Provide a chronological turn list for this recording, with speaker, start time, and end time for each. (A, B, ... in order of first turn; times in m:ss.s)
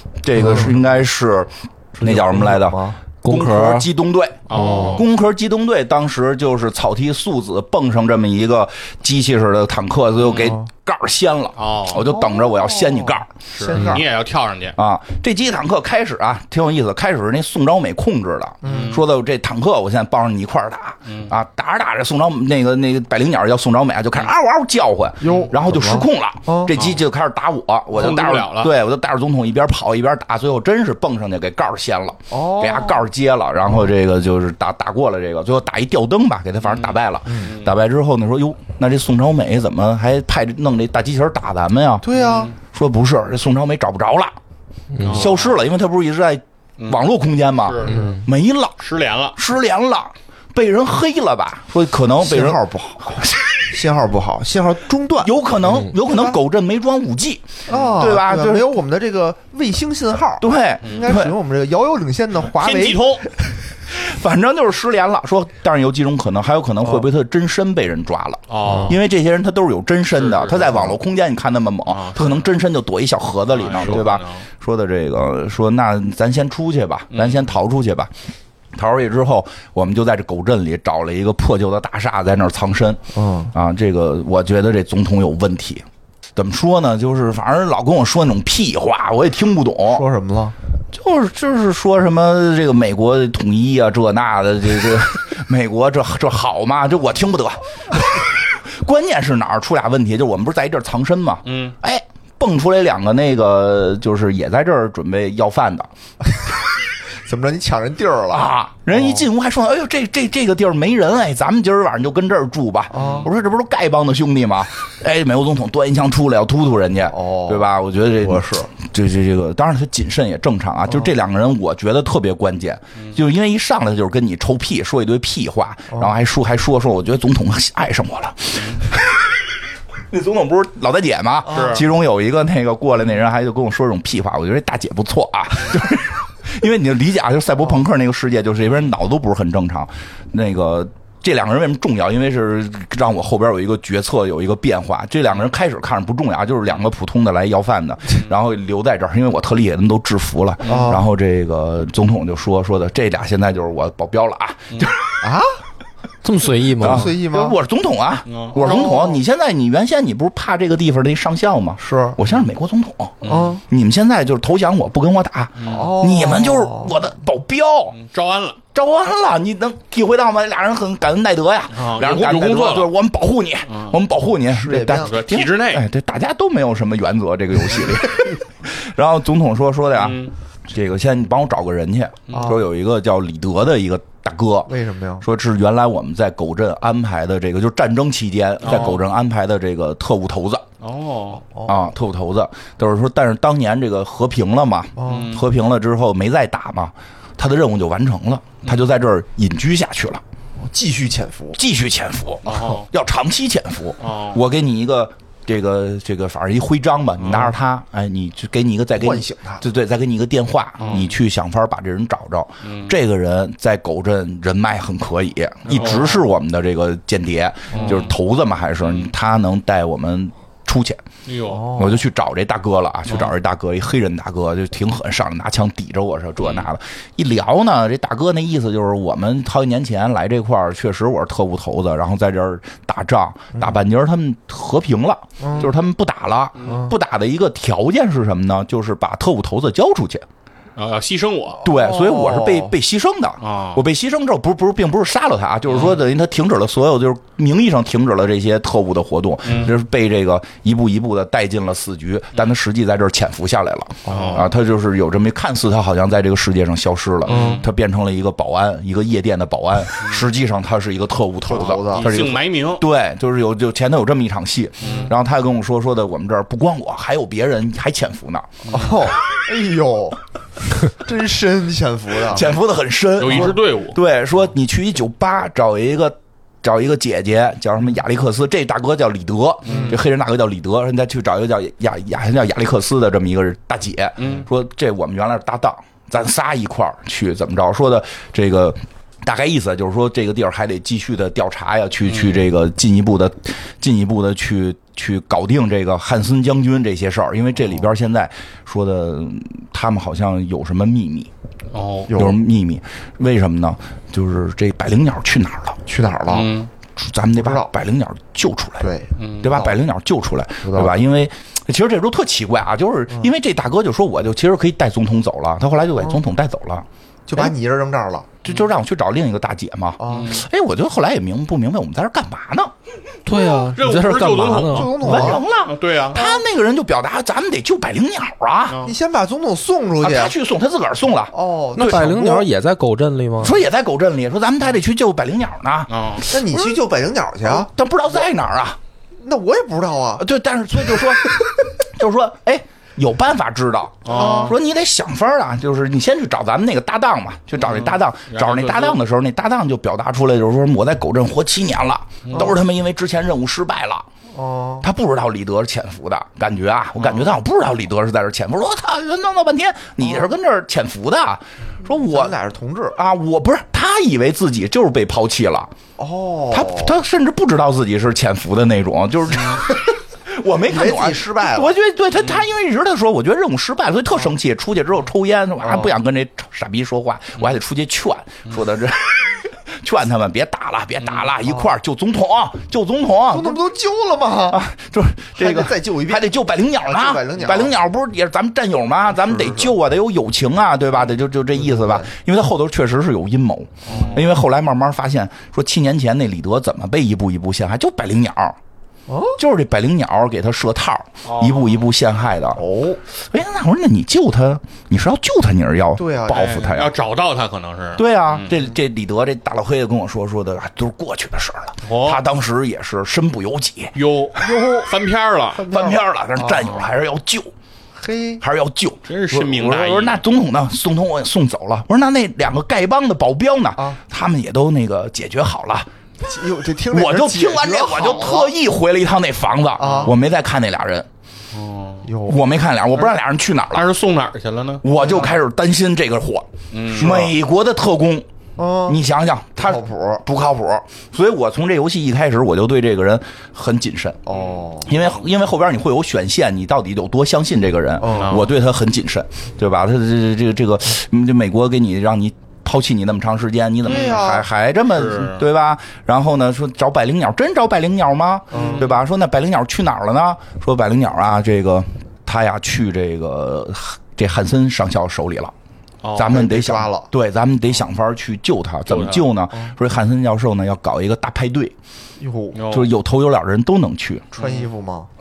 0:00.2-0:13.3 A
0:00.4-0:00.8 B
0:00.4-0:00.7 C
0:02.0-0:03.0 B
0:03.2-0:03.9 C
0:04.5-0:05.0 D
0:04.5-0:05.0 B
0:10.2-0:10.6 D
0:10.3-0:10.7 B
0:11.6-0:12.0 D
0:12.0-0:14.1 B
0:13.5-0:14.8 D
0:14.8-0:42.1 A
0:18.6-0:19.0 B
0:18.6-0:19.0 D
0:21.1-0:21.3 D
0:25.2-0:26.8 B
0:25.2-0:25.5 D
0:26.7-0:27.0 D
0:27.9-0:28.7 D
0:32.3-0:33.0 B
0:36.7-0:37.7 D
0:37.3-0:37.6 B
0:42.0-0:42.5 B
0:42.1-0:42.5 D
0:42.6-0:44.4 A
0:44.9-0:45.2 C
0:45.0-0:45.6 D
0:45.0-0:48.8 A
0:47.6-0:48.1 D
0:48.8-0:49.4 D
0:49.4-0:52.6 A
0:52.2-0:55.4 B
0:55.2-0:58.7 A
0:55.7-0:55.9 C
0:56.0-0:56.4 B
0:57.7-1:03.3 B
0:57.7-0:58.0 D
1:00.4-1:01.4 A
1:00.8-1:01.1 D
1:02.5-1:03.3 D
1:03.9-1:18.1 A
1:08.5-1:09.0 D
1:08.7-1:08.9 B
1:10.1-1:10.8 D
1:10.6-1:11.0 B
1:11.9-1:12.5 D
1:13.5-1:14.4 D
1:17.1-1:17.5 D
1:18.7-1:23.0 A
1:23.1-1:23.5 B
1:23.5-1:25.8 A
1:26.4-1:30.1 A
1:29.9-1:30.6 B
1:30.9-1:45.9 A
1:41.5-1:41.8 D
1:47.2-1:49.2 B
1:48.3-2:09.4 A
1:52.9-1:53.3 B
1:52.9-1:53.3 D
1:57.1-1:57.7 B
1:58.2-1:58.7 B
2:08.6-2:08.8 D
2:10.1-2:35.2 A
2:11.5-2:11.9 D
2:11.6-2:11.8 B
2:30.6-2:31.0 D
2:30.6-2:31.0 B
2:35.2-2:35.5 B
2:36.2-2:37.1 C
2:36.8-2:48.0 A
2:36.8-2:37.6 B
2:38.3-2:39.0 D
2:38.6-2:39.2 B
2:41.8-2:42.2 B
2:43.2-2:43.6 D
2:43.2-2:43.6 B
2:45.6-2:46.0 D
2:45.7-2:46.9 B
2:47.9-2:48.6 D
2:48.7-3:10.6 A
2:51.7-2:52.9 D
2:53.7-2:54.0 D
2:54.5-2:55.2 B
2:55.0-2:55.8 D
3:00.0-3:00.3 D
3:02.3-3:02.6 D
3:02.3-3:02.6 B
3:04.7-3:05.3 B
3:08.6-3:09.0 D
3:10.8-3:11.4 D
3:11.5-3:11.8 B
3:11.7-3:20.2 A
3:15.0-3:15.3 B
3:15.0-3:15.5 D
3:20.6-3:21.6 B
3:21.6-3:41.0 A
3:22.5-3:22.9 D
3:24.0-3:24.4 D
3:27.2-3:27.5 D
3:29.0-3:29.6 B
3:30.8-3:31.2 D
3:32.6-3:33.0 D
3:35.7-3:36.2 D
3:35.8-3:36.2 B
3:37.7-3:38.0 B
3:37.7-3:38.1 D
3:38.8-3:39.1 D
3:41.3-3:41.7 D
3:41.5-3:42.0 B
3:41.7-4:00.2 A
3:43.1-3:43.3 D
3:46.4-3:46.7 D
3:55.4-3:55.7 B
3:56.6-3:56.9 D
3:56.7-3:56.9 B
4:00.8-4:01.6 D
4:01.6-4:02.8 B
4:01.6-4:28.5 A
4:03.4-4:03.8 D
4:05.7-4:06.0 D
4:09.4-4:09.8 D
4:14.1-4:14.5 B
4:14.1-4:14.5 D
4:17.3-4:17.7 D
4:17.3-4:17.7 B
4:21.5-4:22.2 B
4:21.9-4:22.8 D
4:24.8-4:25.1 D
4:24.8-4:25.1 B
4:28.6-4:29.1 D
4:28.7-4:30.2 B
4:30.8-4:32.5 B
4:32.2-5:01.3 A
4:33.2-4:34.0 D
4:33.3-4:33.6 B
4:39.6-4:40.0 D
4:39.7-4:40.0 B
4:44.2-4:44.5 D
4:52.1-4:52.4 D
5:01.7-5:02.1 D
5:02.1-5:02.4 B
5:02.1-5:05.8 A
5:05.9-5:06.5 B
5:06.3-5:06.7 D
5:07.0-5:08.9 A
5:07.4-5:07.7 B
5:08.8-5:09.8 B
5:09.2-5:09.6 D
5:09.4-5:17.5 A
5:10.6-5:11.0 B
5:17.3-5:18.4 B
5:18.4-5:22.7 A
5:20.0-5:20.4 B
5:20.1-5:20.4 D
5:23.3-5:25.3 C
5:23.8-5:26.2 D
5:24.7-5:25.4 B
5:25.0-5:28.8 A
5:26.2-5:26.4 B
5:28.7-5:29.0 D
5:28.8-5:30.4 B
5:30.0-5:32.1 A
5:31.3-5:32.5 B
5:31.8-5:33.6 C
5:33.4-5:36.8 A
5:35.9-5:36.3 D
5:36.3-5:37.7 B
5:37.4-5:38.8 A
5:39.2-5:40.2 B
5:40.2-5:54.1 A
5:44.0-5:44.6 D
5:44.1-5:44.6 B
5:47.6-5:49.0 D
5:52.2-5:52.6 D
5:52.3-5:52.6 B
5:54.3-5:54.9 B
5:54.8-6:02.4 A
5:57.0-5:57.3 D
6:00.0-6:00.3 B
6:01.9-6:03.0 B
6:03.0-6:05.7 A
6:06.0-6:07.0 B
6:06.5-6:23.6 A
6:10.7-6:11.8 B
6:15.6-6:15.9 B
6:21.4-6:21.8 B
6:23.3-6:24.6 B
6:24.5-6:38.6 A
6:25.4-6:26.3 B
6:26.8-6:27.8 B
6:29.1-6:29.7 B
6:31.6-6:32.1 B
6:33.9-6:34.3 B
6:33.9-6:34.3 D
6:39.1-6:39.4 B
6:39.4-6:46.9 A
6:41.2-6:41.8 D
6:42.6-6:43.0 B
6:46.0-6:46.9 B
6:46.3-6:48.5 D
6:48.0-6:54.0 A
6:51.8-6:52.2 D
6:54.0-6:55.7 D
6:54.4-6:54.9 B
6:55.5-6:56.0 B
6:55.7-6:57.5 A
6:56.4-6:56.9 D
6:58.0-6:58.4 B
6:58.4-7:05.9 A
6:59.1-7:00.2 D
7:06.2-7:08.5 B
7:06.9-7:11.1 A
7:09.8-7:10.1 D
7:09.8-7:10.1 B
7:11.5-7:12.1 D
7:12.0-7:12.4 B
7:12.3-7:13.9 A
7:13.7-7:15.2 D
7:14.8-7:18.3 A
7:14.9-7:15.4 B
7:16.7-7:17.4 D
7:18.6-7:19.0 B
7:18.8-7:24.2 A
7:19.6-7:20.2 B
7:24.3-7:24.9 B
7:24.3-7:24.7 D
7:24.8-7:45.5 A
7:28.0-7:28.4 B
7:28.1-7:28.5 D
7:33.9-7:34.4 D
7:33.9-7:34.5 B
7:34.9-7:35.4 D
7:38.5-7:38.9 B
7:38.5-7:39.0 D
7:46.0-7:46.4 D
7:46.2-7:51.7 A
7:46.3-7:47.1 B
7:48.9-7:49.3 D
7:52.2-7:52.7 B
7:52.5-7:52.9 D
7:52.7-7:54.3 A
7:54.4-7:54.7 D
7:54.4-7:55.1 B